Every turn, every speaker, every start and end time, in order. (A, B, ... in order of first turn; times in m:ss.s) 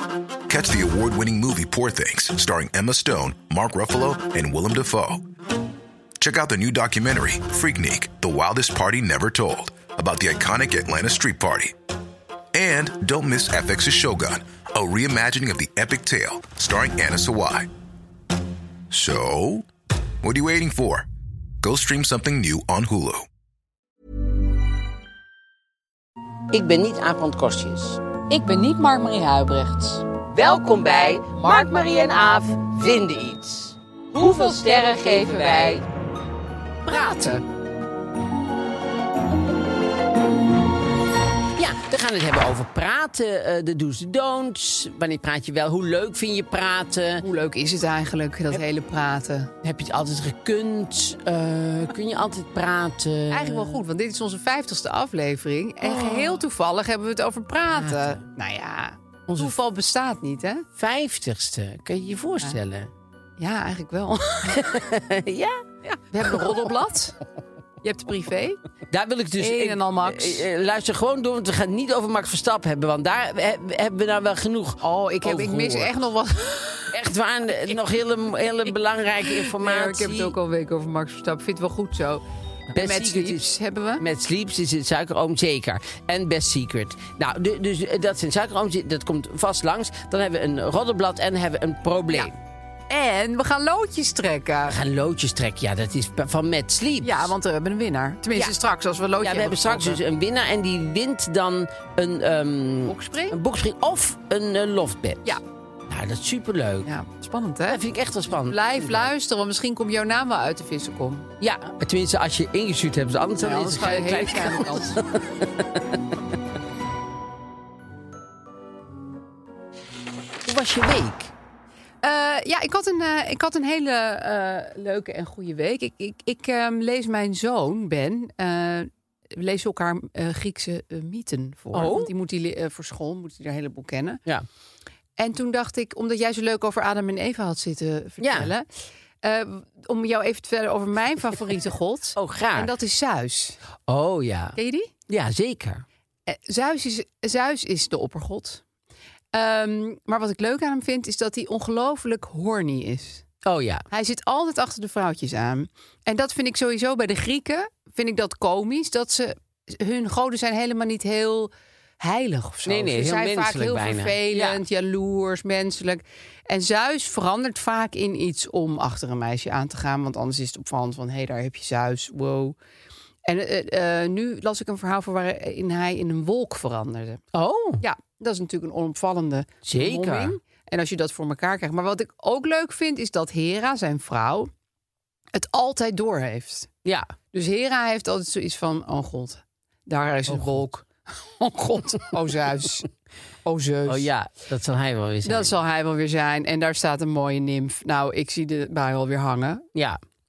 0:00.5-0:05.2 A
0:06.2-0:11.7 A
0:12.5-0:17.7 A
0:18.9-0:19.6 A
0:20.2-0:21.1 A
0:21.6-0:23.3 A
0:26.5-0:28.0 B
0:28.3-0:30.0 C
0:30.3-0:35.8 B
0:34.2-0:35.8 C
0:36.8-0:37.4 B
0:36.9-0:37.4 C
0:41.5-0:47.2 B
0:47.2-0:49.5 C
0:49.6-0:53.8 B
0:53.3-1:00.6 C
0:55.8-0:56.4 B
0:57.7-0:58.2 B
0:59.3-0:59.6 B
1:00.8-1:02.9 B
1:03.4-1:04.6 C
1:04.4-1:06.7 B
1:06.1-1:07.2 C
1:07.8-1:08.6 C
1:08.9-1:15.9 B
1:09.4-1:10.5 C
1:14.8-1:17.0 C
1:16.9-1:20.3 B
1:19.3-1:24.0 C
1:22.7-1:32.3 B
1:32.9-1:34.8 C
1:34.7-1:37.3 B
1:37.0-1:40.0 C
1:39.2-1:46.9 B
1:42.8-1:43.4 C
1:46.8-1:51.3 C
1:47.7-1:49.1 B
1:51.4-1:56.0 B
1:53.4-1:55.0 C
2:00.4-2:01.3 B
2:02.0-2:14.2 C
2:11.7-2:12.1 B
2:15.2-2:18.6 C
2:18.2-2:18.5 B
2:19.2-2:23.6 C
2:22.2-2:22.7 B
2:23.9-2:25.8 B
2:24.6-2:24.9 C
2:26.3-2:28.6 C
2:29.3-2:33.2 C
2:33.4-2:33.8 B
2:33.9-2:52.6 C
2:42.6-2:44.6 B
2:53.2-2:57.2 C
2:57.3-2:57.8 B
2:57.8-3:04.5 C
2:59.6-3:00.4 B
3:05.3-3:06.7 C
3:06.8-3:07.1 B
3:07.3-3:12.9 C
3:10.3-3:10.6 B
3:13.4-3:14.1 C
3:13.8-3:15.5 B
3:15.2-3:19.7 C